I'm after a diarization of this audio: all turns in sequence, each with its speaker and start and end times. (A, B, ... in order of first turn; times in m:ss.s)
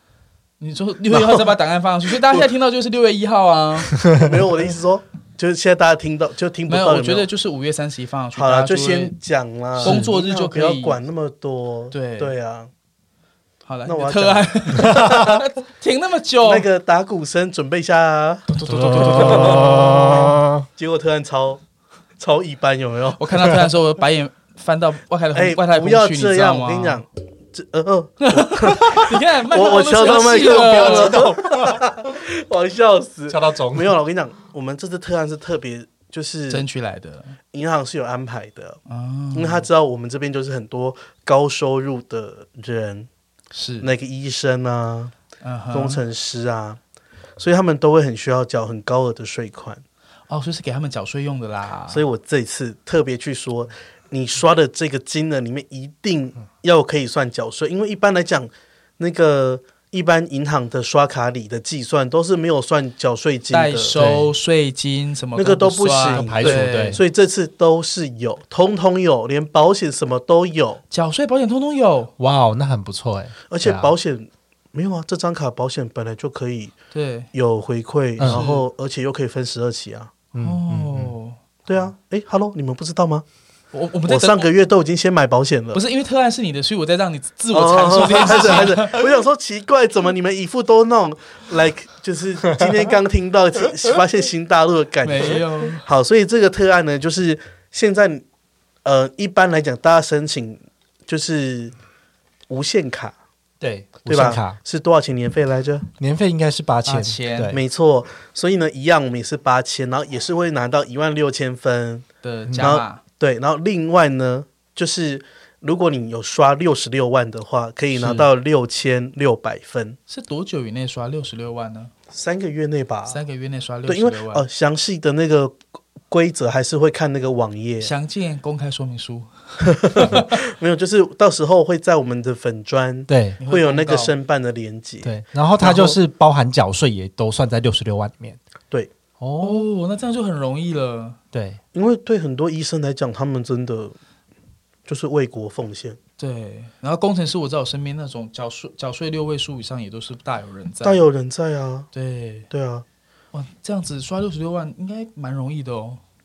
0:00.6-0:04.0 A
0:01.1-0:01.6 B
0:04.1-0:07.3 B
0:06.7-0:09.2 A
0:08.4-0:12.7 B
0:09.8-0:10.1 C
0:09.8-0:11.0 A
0:11.9-0:12.4 A
0:13.6-0:16.7 A
0:13.9-0:15.3 B
0:14.9-0:15.3 C
0:16.4-0:21.6 B
0:18.5-0:20.3 A
0:18.7-0:20.7 C
0:22.2-0:23.2 B
0:23.2-0:27.0 A
0:25.3-0:36.6 B
0:28.2-0:31.2 A
0:30.0-0:31.8 C
0:33.3-0:34.0 C
0:36.5-0:37.4 A
0:37.5-0:38.8 B
0:38.9-0:39.7 A
0:39.3-0:43.1 B
0:43.5-0:43.9 A
0:43.8-0:45.1 B
0:45.4-0:46.0 A
0:45.7-0:46.8 B
0:47.4-0:49.8 B
0:50.3-0:52.0 A
0:51.9-1:04.0 B
1:03.5-1:07.0 A
1:04.0-1:04.3 C
1:05.4-1:10.8 B
1:06.2-1:07.0 C
1:10.9-1:12.1 A
1:12.2-1:13.9 C
1:13.5-1:16.7 B
1:16.9-1:17.3 A
1:17.3-1:20.1 B
1:18.2-1:18.4 C
1:18.2-1:18.6 A
1:20.3-1:21.1 C
1:20.4-1:21.4 A
1:21.7-1:23.2 B
1:23.7-1:24.5 A
1:24.1-1:25.8 B
1:25.7-1:29.0 A
1:27.5-1:38.2 B
1:35.0-1:35.9 A
1:38.8-1:41.7 B
1:42.5-1:43.2 B
1:43.6-1:44.6 C
1:44.1-1:45.9 B
1:46.0-1:47.6 C
1:46.9-1:47.6 A
1:47.5-1:52.1 B
1:52.2-1:53.0 A
1:52.5-1:52.7 C
1:52.6-2:00.0 B
1:58.0-1:58.3 C
2:00.1-2:01.9 A
2:02.1-2:03.2 B
2:03.1-2:04.5 A
2:03.9-2:07.9 B
2:07.8-2:10.4 A
2:09.7-2:16.0 B
2:13.1-2:13.4 C
2:13.4-2:14.1 A
2:15.0-2:18.4 C
2:19.2-2:19.7 C
2:19.4-2:21.2 A
2:21.3-2:21.6 C
2:21.7-2:24.0 B
2:24.9-2:26.0 B
2:26.2-2:31.0 A
2:30.8-2:31.9 B
2:31.9-2:32.5 A
2:32.5-2:32.8 B
2:33.3-2:36.0 A